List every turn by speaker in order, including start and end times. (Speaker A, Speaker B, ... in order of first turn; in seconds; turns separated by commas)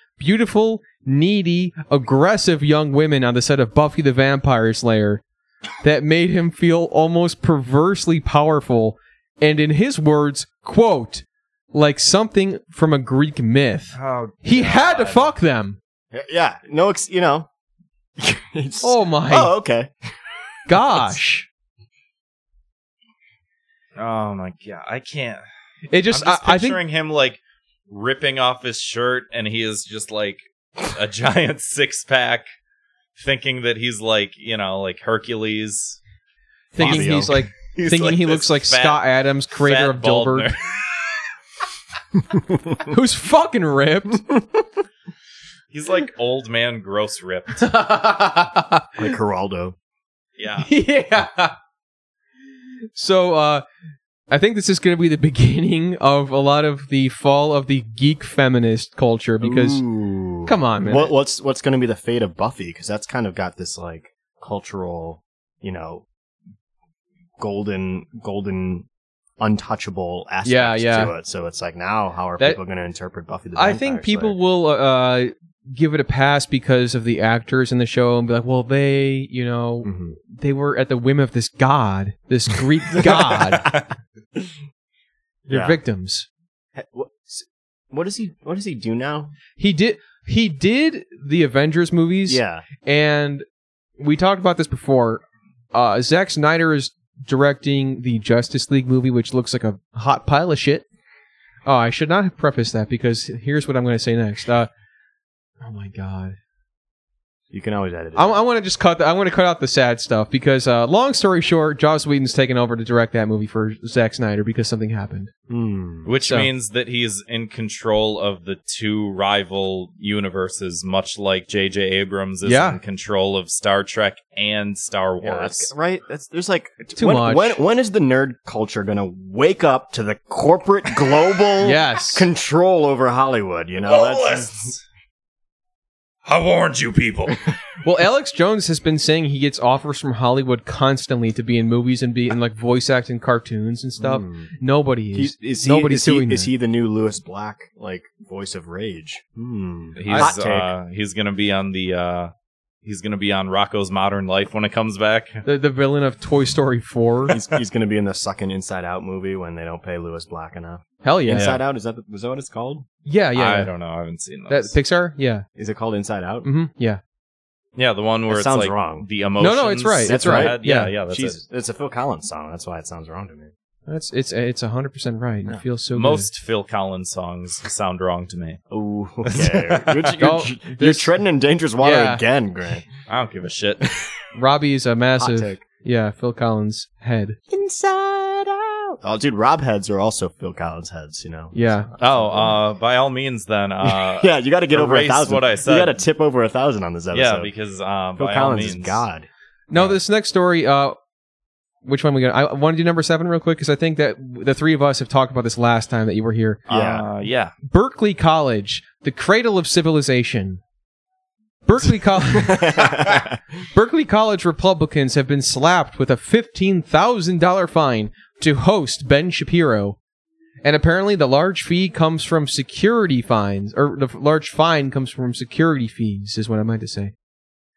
Speaker A: 0.2-5.2, Speaker A: 5.8-15.8, Speaker B: 13.9-15.3, Speaker C: 16.1-17.5, Speaker C: 18.2-19.9, Speaker A: 18.8-19.5, Speaker A: 20.7-21.5, Speaker B: 23.9-25.4, Speaker A: 25.9-26.8, Speaker B: 26.1-32.5, Speaker B: 33.1-36.0, Speaker C: 36.7-37.3, Speaker A: 36.7-40.5, Speaker B: 36.8-41.2, Speaker A: 42.9-44.2, Speaker B: 45.7-47.7, Speaker A: 47.6-48.9, Speaker C: 49.0-49.8, Speaker B: 50.4-50.7, Speaker A: 50.6-51.5, Speaker A: 52.9-53.6, Speaker A: 54.3-59.8, Speaker C: 59.4-66.0, Speaker A: 60.4-61.1, Speaker C: 67.4-68.8, Speaker C: 69.4-74.4, Speaker A: 70.4-71.1, Speaker A: 73.5-83.7, Speaker C: 79.8-80.2, Speaker B: 83.5-83.8, Speaker C: 85.5-85.8, Speaker A: 85.5-86.2, Speaker C: 86.8-89.3, Speaker A: 89.6-93.4, Speaker C: 92.3-92.7, Speaker A: 94.0-95.2, Speaker A: 95.7-100.8, Speaker A: 101.7-104.7, Speaker A: 105.6-106.4, Speaker C: 107.5-108.4, Speaker A: 108.2-115.3, Speaker C: 115.5-116.1, Speaker B: 116.0-125.7, Speaker A: 116.2-116.5, Speaker A: 122.4-122.8, Speaker C: 125.2-134.7, Speaker A: 127.0-127.6, Speaker A: 131.6-132.3, Speaker B: 133.8-134.8, Speaker B: 136.2-137.5, Speaker A: 137.8-146.5, Speaker C: 144.0-144.5, Speaker C: 145.1-150.7, Speaker B: 150.0-152.3, Speaker A: 150.0-150.3, Speaker B: 152.8-155.4, Speaker A: 155.4-157.3, Speaker C: 157.3-162.8, Speaker A: 161.0-161.5, Speaker B: 161.3-161.6, Speaker A: 163.0-163.7, Speaker B: 163.3-164.7, Speaker A: 164.5-165.4, Speaker C: 165.6-166.5, Speaker A: 166.4-167.0, Speaker B: 167.8-171.4, Speaker C: 168.3-169.1, Speaker A: 169.4-170.9, Speaker C: 170.0-173.5, Speaker A: 173.9-176.3, Speaker B: 175.9-178.6, Speaker C: 178.7-182.8, Speaker B: 179.2-180.2, Speaker A: 180.2-181.1, Speaker A: 181.8-182.2, Speaker B: 183.1-183.9, Speaker A: 184.3-187.4, Speaker C: 185.1-185.6, Speaker C: 187.5-192.6, Speaker A: 191.5-191.9, Speaker B: 192.0-195.9, Speaker C: 193.8-197.5, Speaker B: 197.1-199.0, Speaker C: 198.2-199.9, Speaker A: 199.7-201.0, Speaker A: 201.8-206.6, Speaker C: 206.7-207.1, Speaker B: 206.7-207.5, Speaker A: 207.7-210.6, Speaker A: 211.7-213.0, Speaker C: 212.3-213.4, Speaker A: 213.7-220.0, Speaker A: 220.6-227.1